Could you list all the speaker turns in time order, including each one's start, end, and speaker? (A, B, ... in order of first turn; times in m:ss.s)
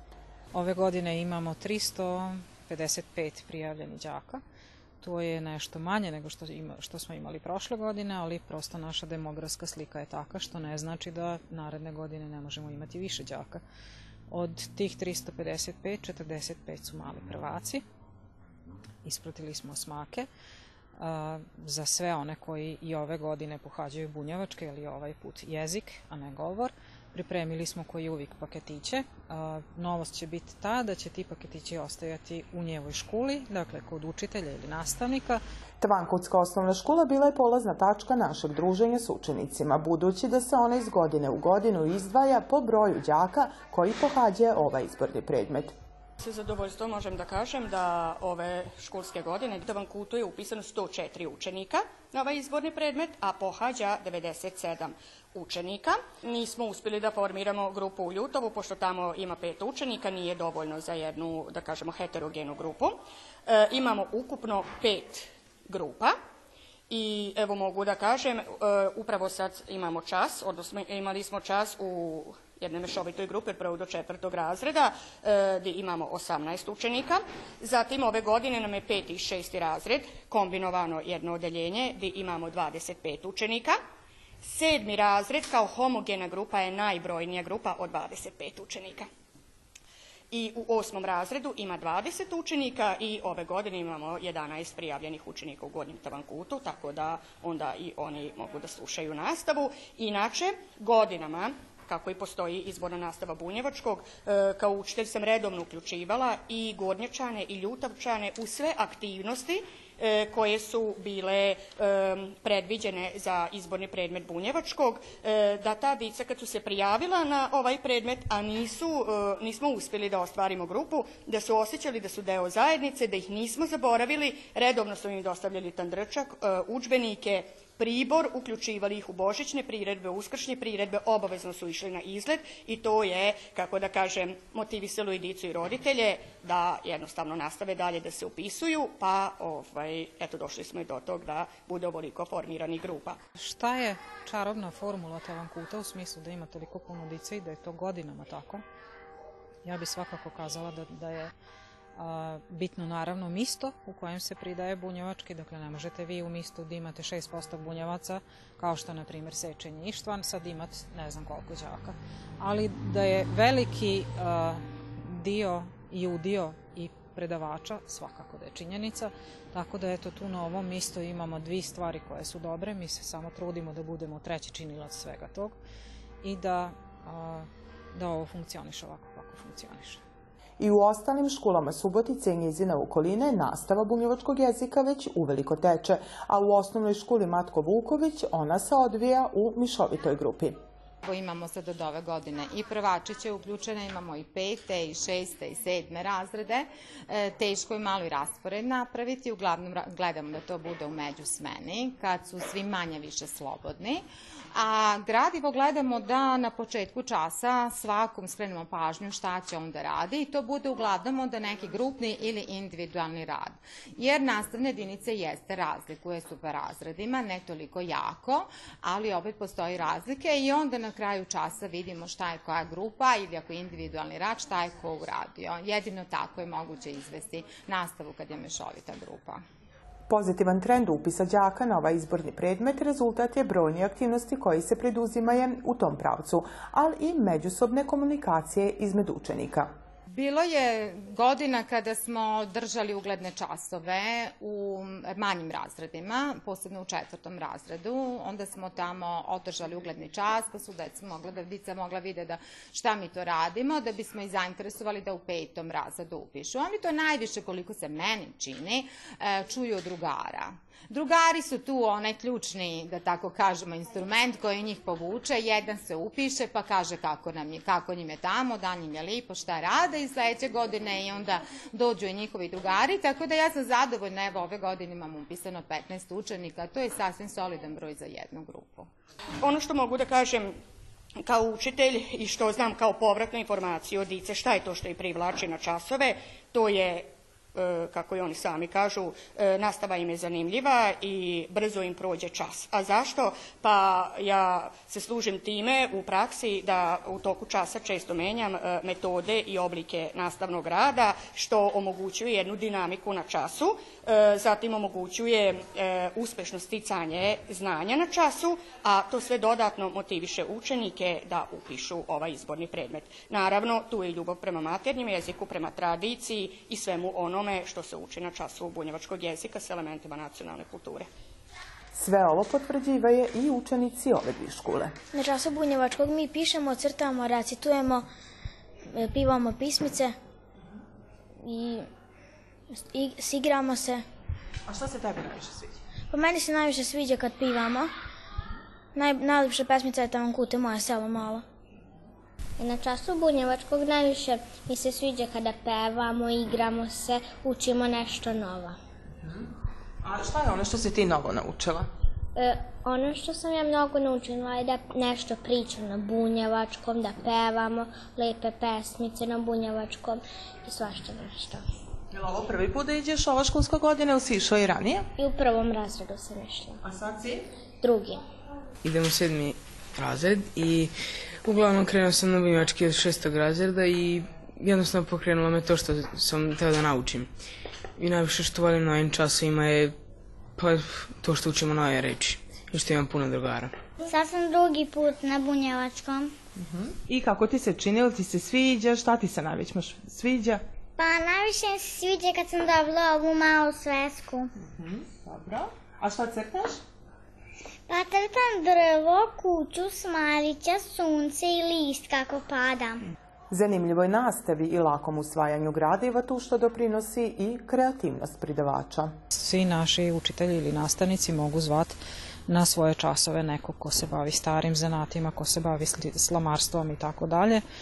0:00.5-0:04.4 A
0:05.0-0:13.6 A
0:14.3-0:17.8 A
0:19.0-0:20.3 A
0:21.0-0:35.4 A
0:35.8-0:45.7 B
0:46.2-1:06.1 C
1:06.9-1:23.8 C
1:24.4-1:29.1 C
1:30.3-2:23.2 C
2:23.4-2:28.6 A
2:29.6-2:31.3 A
2:32.0-2:55.6 A
2:56.2-3:00.0 A
3:00.6-3:10.6 B
3:11.0-3:49.4 D
3:50.1-3:59.7 B
4:00.1-4:38.9 D
4:39.4-4:40.6 C
4:41.2-5:21.1 C
5:21.9-5:24.9 B
5:25.1-5:28.1 E
5:28.9-5:30.1 E
5:31.4-5:31.9 E
5:32.7-5:34.0 E
5:34.7-5:35.8 B
5:36.1-5:37.9 E
5:38.9-5:41.4 E
5:42.6-5:48.8 F
5:50.0-5:51.9 B
5:52.4-6:01.6 F
6:02.1-6:05.1 B
6:05.2-6:06.8 F
6:06.8-6:07.4 B
6:07.8-6:08.2 F
6:08.8-6:17.3 G
6:18.0-6:20.0 G
6:20.6-6:23.7 G
6:24.0-6:26.3 H
6:26.6-6:30.6 B
6:31.0-6:34.5 H
6:34.6-6:36.8 B
6:37.9-6:43.0 H
6:43.5-6:49.1 B
6:49.3-6:57.6 A